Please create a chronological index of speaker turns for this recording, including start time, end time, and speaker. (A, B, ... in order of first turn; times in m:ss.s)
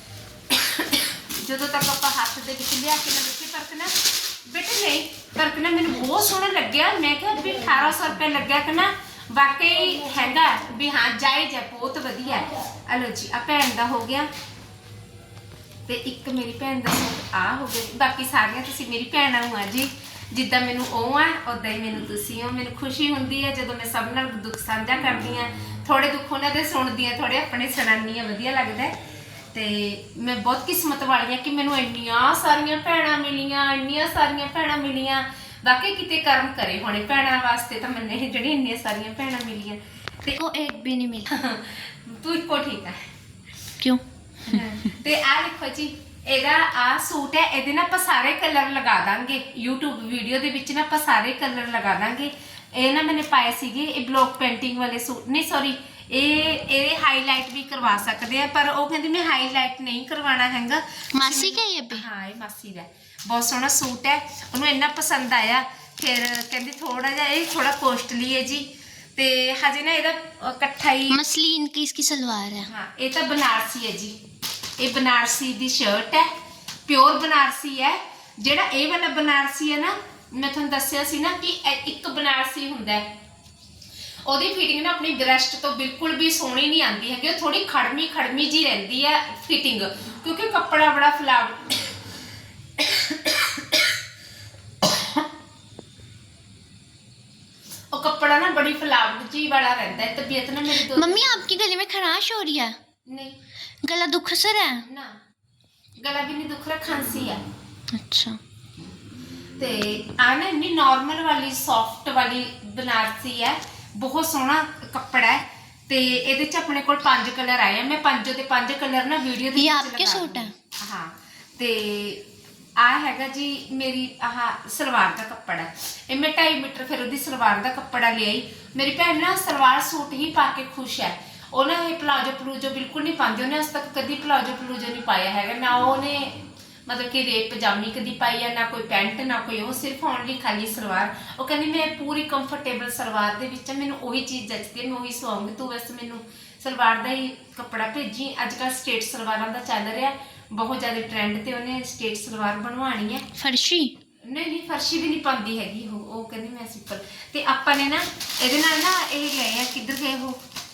0:00.5-0:03.9 A
0:04.5-0:14.3 A
0:15.9-0:28.9 A
0:29.5-0:40.4 A
0:40.3-0:41.3 B
0:41.3-0:43.0 A
0:43.8-0:44.8 B
0:44.5-1:11.2 A
1:01.1-1:02.0 B
1:11.1-1:12.7 B
1:12.7-1:14.2 A
1:14.8-1:16.3 A
1:16.9-1:23.1 A
1:24.3-1:31.9 A
1:33.0-1:33.5 A
1:37.9-1:41.4 A
1:40.7-1:42.8 B
1:43.1-1:43.4 A
1:43.8-1:44.8 B
1:44.8-1:45.1 A
1:46.0-1:47.4 A
1:47.9-1:48.4 B
1:49.6-2:02.2 A
1:59.5-2:00.5 B
2:02.8-2:33.3 A
2:33.4-2:33.9 B
2:34.3-2:40.4 A